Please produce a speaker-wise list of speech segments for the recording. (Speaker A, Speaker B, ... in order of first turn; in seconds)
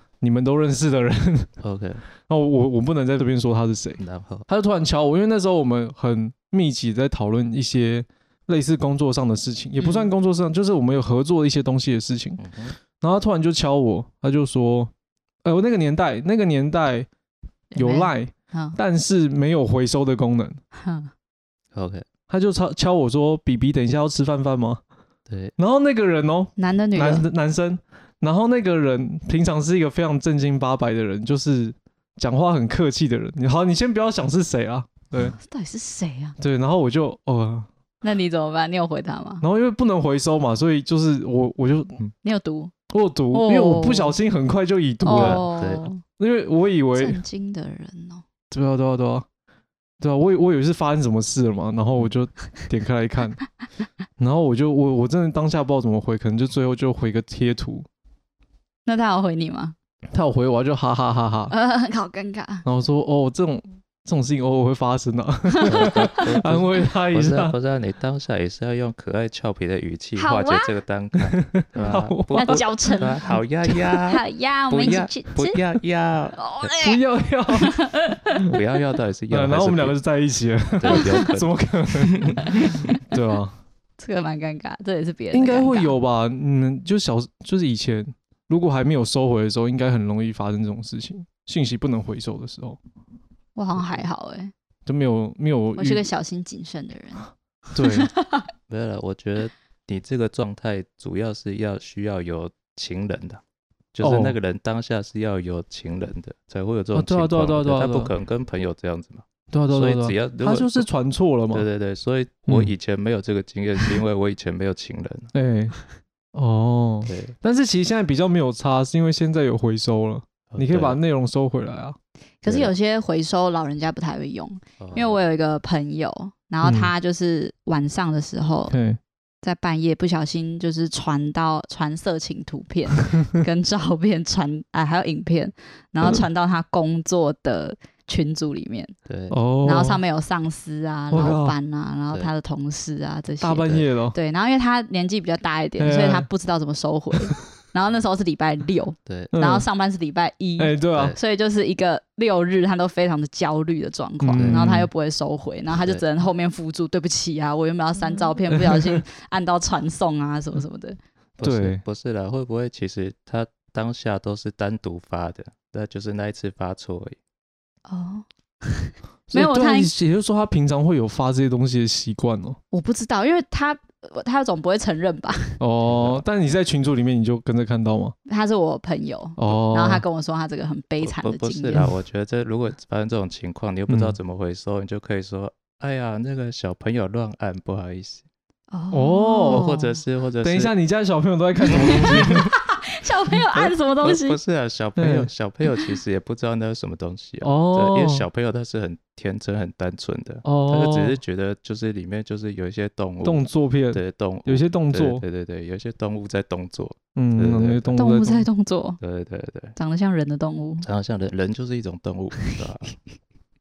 Speaker A: 0.2-1.5, 2.3-12.4, 13.0-14.9, 15.4-17.1, 17.8-20.6, 22.3-24.8, 25.6-35.4, 36.4-37.7, 39.4-42.0, 42.9-45.5, 46.2-47.2, 48.5-49.3, 50.0-53.4, 54.2-57.9, 60.1-61.5, 62.6-67.6, 71.3-72.7, 76.8-77.7, 79.3-83.6, 85.3-92.8, 94.9-96.0, 97.7-98.1, 104.0-104.4, 106.9-108.1, 109.5-111.7, 115.3-115.8, 116.3-122.0, 126.6-126.9, 128.7-129.0, 133.0-133.3, 139.3-140.0, 141.1-141.6, 143.4-144.2, 145.8-146.3, 149.3-149.7, 150.6-151.2, 154.3-154.9, 161.4-161.8, 169.3-172.6, 175.6-178.1, 179.4-180.1, 183.9-184.2, 188.9-189.7, 190.4-192.5, 195.0-195.3, 197.4-198.3, 200.4-201.2, 203.2-205.2, 207.2-208.5
Speaker B: 1.6-2.0, 4.0-4.5, 12.4-12.8, 21.7-22.1, 25.3-25.5, 45.1-45.9, 65.7-76.7, 78.5-80.0, 80.7-82.9, 98.7-103.4, 103.9-110.9, 111.5-115.3, 117.1-117.3, 120.5-121.0, 122.5-122.7, 124.8-125.2, 139.1-139.4, 149.1-149.3, 150.9-151.2, 154.3-154.6, 161.4-167.2, 175.9-176.2, 181.0-188.2, 189.5-190.7, 191.7-192.5, 193.5-208.0, 209.0-209.7, 210.8-212.9
Speaker C: 9.8-10.1, 17.7-18.8, 20.8-21.1, 26.6-27.3, 35.2-36.4, 38.0-39.4, 42.2-42.7, 43.3-44.2, 45.0-46.0, 47.0-48.2, 58.9-59.8, 61.5-62.6, 65.6-66.1, 70.2-70.7, 72.3-75.6, 76.4-77.0, 77.6-78.6, 80.9-81.3, 82.5-82.7, 84.0-86.0, 93.6-94.5, 95.8-97.3, 97.8-98.5, 122.4-128.7, 129.4-139.0, 139.7-161.0, 167.9-169.9, 172.7-175.6, 178.3-181.9, 188.7-190.0, 191.7-194.4, 208.0-209.0, 209.8-210.9